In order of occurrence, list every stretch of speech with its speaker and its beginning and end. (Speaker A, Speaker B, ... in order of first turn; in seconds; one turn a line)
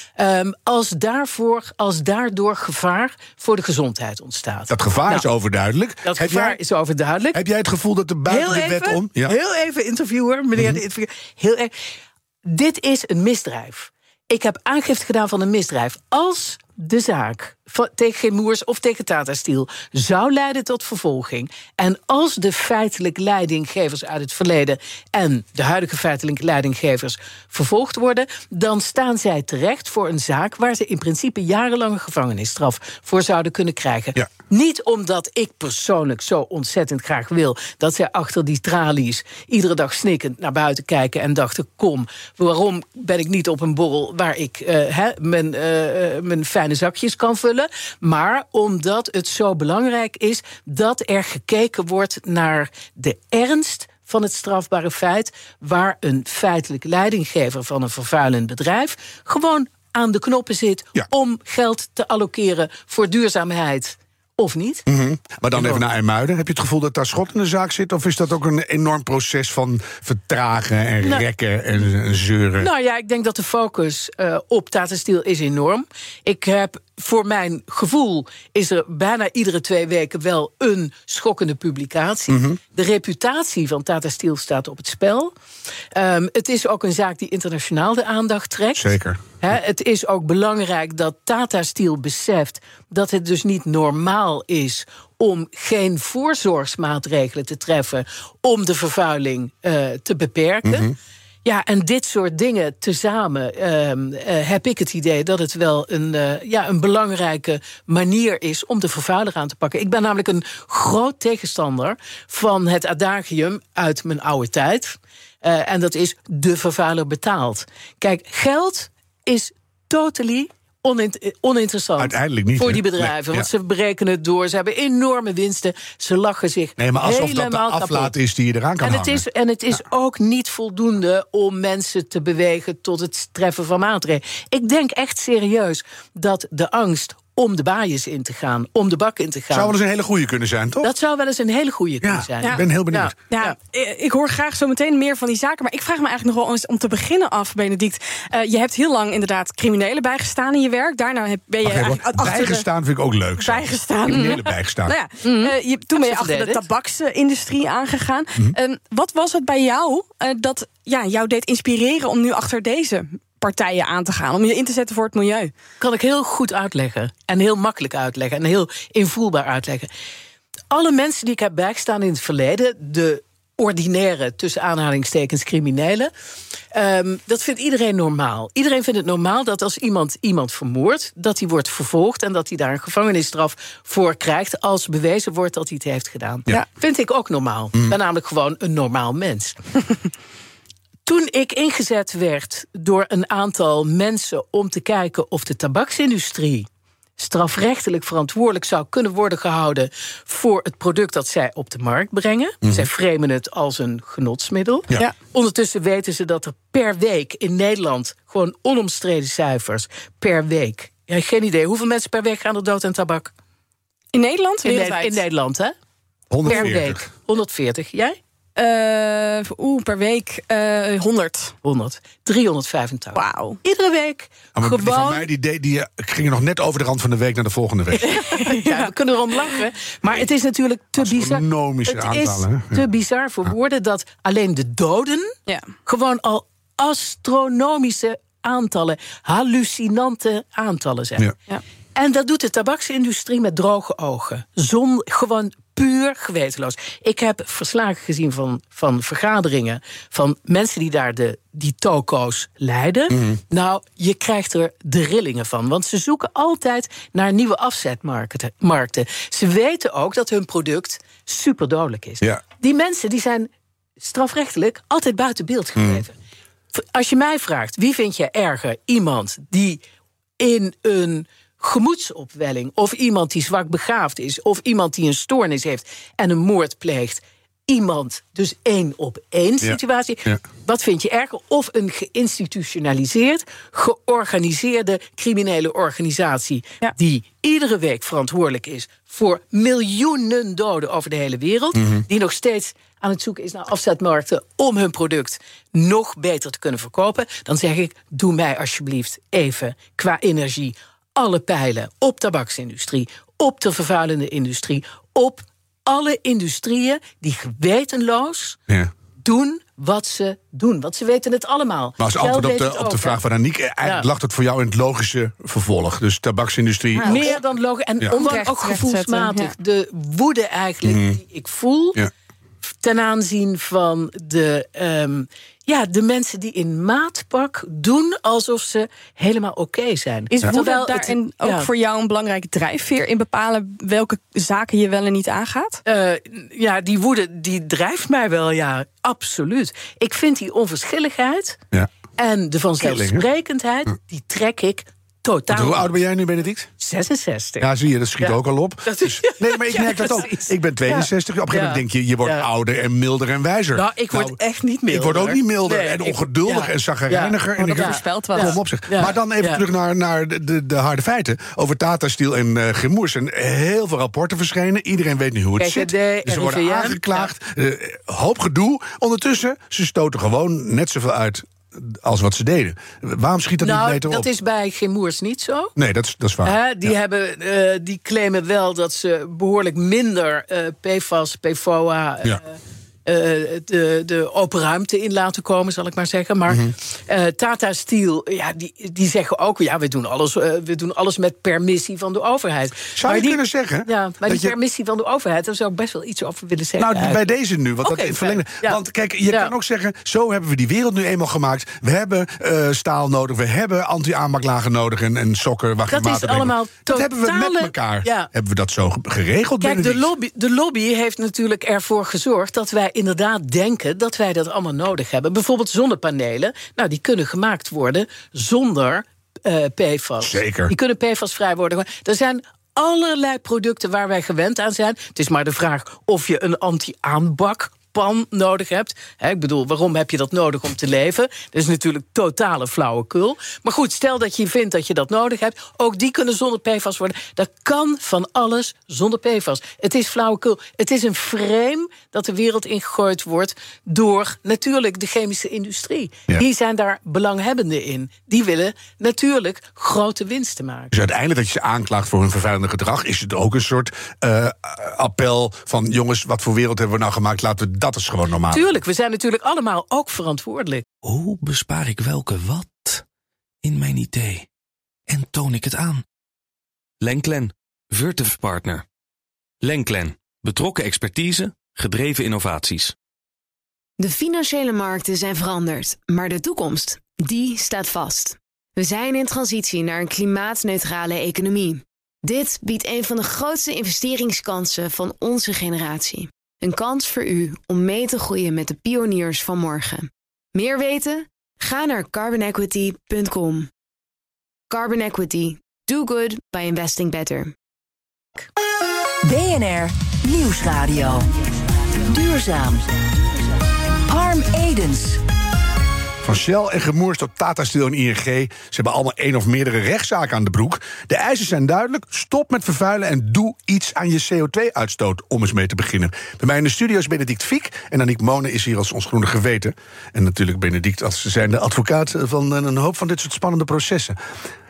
Speaker A: 0.2-5.2
Speaker B: 4.7-6.6
Speaker A: 6.0-7.4
Speaker B: 7.3-9.3
Speaker A: 8.3-11.7
Speaker A: 12.4-64.8
Speaker B: 64.9-72.7
Speaker A: 65.5-65.8
Speaker A: 72.6-85.3
Speaker B: 82.3-82.6
Speaker A: 85.9-100.9
Speaker B: 88.8-89.2
Speaker B: 100.6-100.9
Speaker A: 101.4-128.1
Speaker B: 122.0-123.5
Speaker B: 126.8-129.2
Speaker A: 128.8-139.7
Speaker B: 139.5-140.9
Speaker A: 140.8-143.5
Speaker B: 142.0-143.1
Speaker C: 143.3-152.7
Speaker B: 151.6-154.9
Speaker C: 153.4-165.5
Speaker A: 155.2-156.6
Speaker A: 165.8-169.9
Speaker A: 170.7-176.1
Speaker A: 176.7-189.6
Speaker A: 191.1-196.7
Speaker A: 197.2-213.3
Speaker B: 202.6-202.9
Speaker C: 214.1-215.2
Speaker A: 214.6-215.7
Speaker B: 216.3-217.1
Speaker A: 216.4-218.2
Speaker C: 218.6-221.5
Speaker A: 221.6-225.3
Speaker C: 223.1-223.6
Speaker B: 224.5-228.1
Speaker A: 227.9-235.3
Speaker C: 228.1-228.9
Speaker B: 231.0-232.9
Speaker A: 235.8-241.2
Speaker A: 241.9-263.5
Speaker B: 253.1-253.4
Speaker A: 264.0-266.1
Speaker B: 265.8-266.0
Speaker A: 266.7-269.8
Speaker A: 270.4-308.6
Speaker B: 279.6-280.4
Speaker B: 291.8-292.0
Speaker A: 309.2-313.2
Speaker B: 312.0-317.3
Speaker A: 313.8-314.1
Speaker C: 316.9-317.4
Speaker A: 317.0-322.0
Speaker C: 318.1-319.5
Speaker B: 320.8-321.2
Speaker A: 322.7-331.7
Speaker C: 330.3-335.8
Speaker A: 335.9-341.6
Speaker A: 342.2-346.0
Speaker B: 342.8-343.2
Speaker B: 345.5-346.7
Speaker A: 346.8-347.7
Speaker B: 347.6-354.4
Speaker A: 348.2-352.4
Speaker A: 353.7-359.6
Speaker B: 354.9-374.3
Speaker C: 357.6-358.6
Speaker A: 365.6-367.3
Speaker A: 373.6-375.7
Speaker B: 375.8-376.9
Speaker A: 376.4-397.2
Speaker B: 392.9-394.5
Speaker B: 396.8-410.1
Speaker A: 397.8-399.5
Speaker A: 405.9-408.3
Speaker A: 409.6-450.9
Speaker B: 420.2-420.7
Speaker B: 450.9-458.8
Speaker A: 458.5-460.8
Speaker D: 461.0-463.0
Speaker D: 463.6-464.5
Speaker D: 465.1-466.0
Speaker D: 467.0-468.8
Speaker D: 469.6-472.9
Speaker E: 474.0-493.7
Speaker E: 494.7-497.5
Speaker F: 499.2-501.3
Speaker F: 502.0-502.9
Speaker F: 504.1-505.2
Speaker B: 506.2-524.2